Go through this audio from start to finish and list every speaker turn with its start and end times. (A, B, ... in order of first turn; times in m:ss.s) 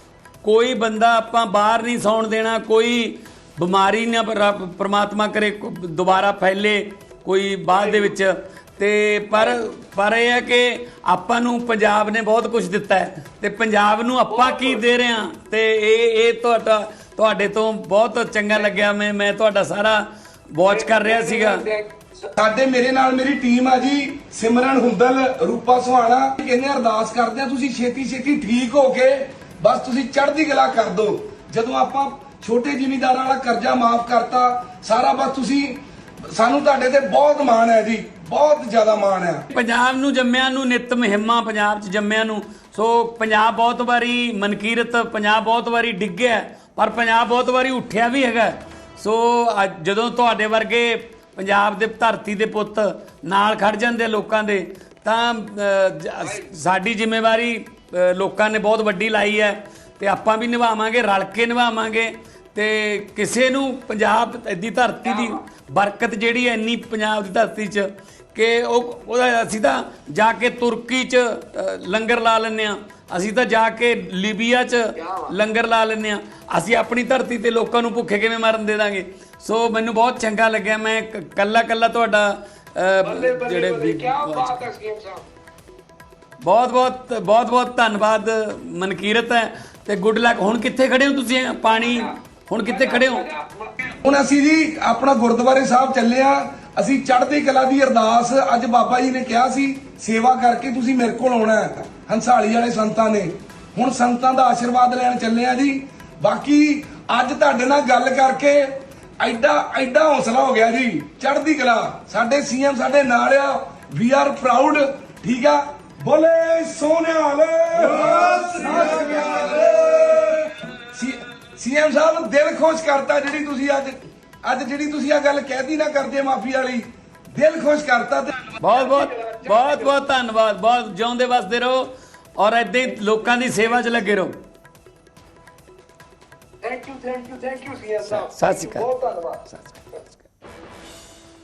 0:00.4-0:21.7 A
0:21.0-0:21.9 B
0:22.4-0:39.5 C
0:39.5-1:24.6 A
1:23.2-1:25.2 B
1:26.4-1:33.3 A
1:32.8-1:33.7 B
1:34.0-2:08.5 C
2:08.6-2:14.4 A
2:16.6-2:19.4 B
2:18.0-2:18.9 A
2:19.5-2:20.2 A